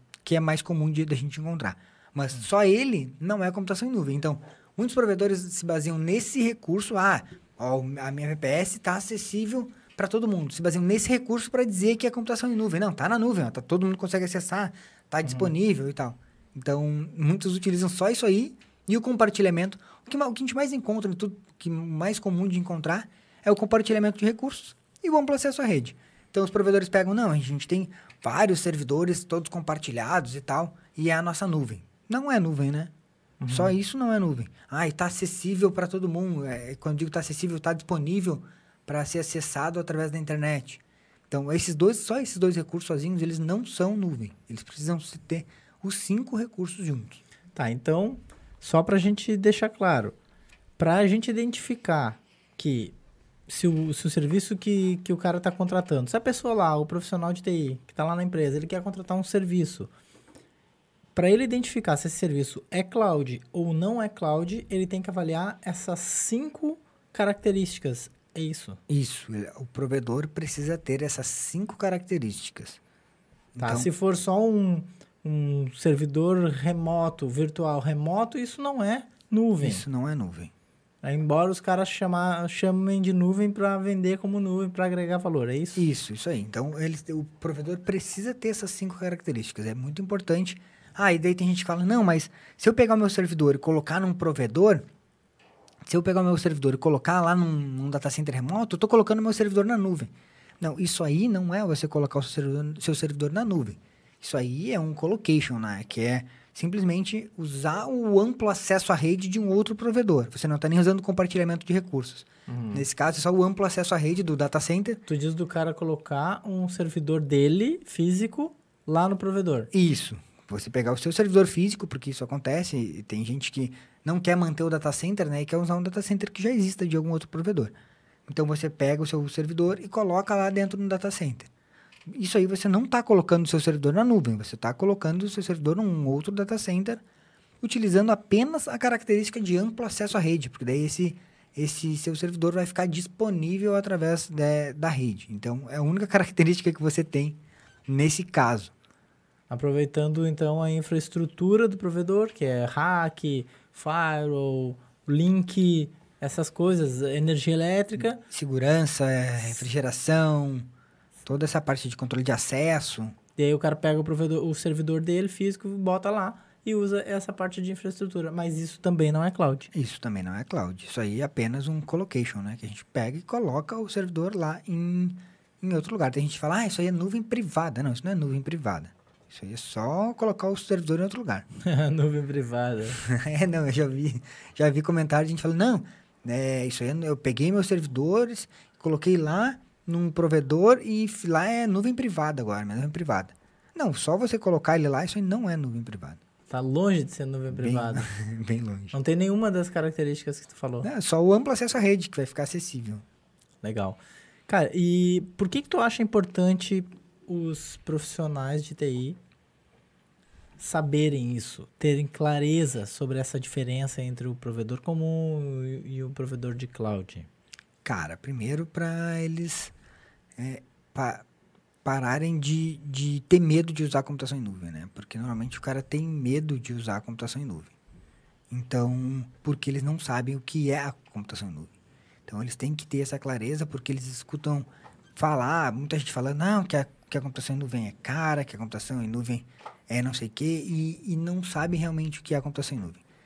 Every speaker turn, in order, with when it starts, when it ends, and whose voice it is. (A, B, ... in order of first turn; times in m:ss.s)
0:00.2-0:32.9 A
0:15.2-0:15.5 B
0:33.4-0:33.8 B
0:33.5-0:47.2 A
0:47.6-0:50.2 B
0:50.8-0:53.0 B
0:53.5-0:59.9 B
1:01.2-1:08.8 B
1:08.9-1:12.8 A
1:13.6-1:13.9 A
1:13.6-1:19.8 B
1:19.6-1:20.5 A
1:21.0-1:25.8 B
1:25.8-1:34.9 A
1:35.8-1:55.0 A
1:52.5-1:52.9 B
1:55.1-1:59.7 B
1:59.7-2:07.7 A
2:08.3-2:11.5 A
2:12.1-2:17.0 A
2:17.6-2:28.7 A
2:29.5-2:38.2 B
2:38.2-2:40.7 A
2:41.2-2:43.2 A
2:43.4-2:49.7 B
2:49.7-3:01.5 A
3:01.6-3:03.0 B
3:03.0-3:16.2 A
3:16.5-3:18.1 B
3:17.5-3:19.0 A
3:18.9-3:20.9 B
3:20.8-3:23.0 A
3:23.6-3:29.2 B
3:30.6-3:37.3 B
3:37.8-3:39.7 A
3:40.4-3:41.2 A
3:41.8-3:47.7 A
3:48.5-3:51.7 A
3:52.3-4:03.0 A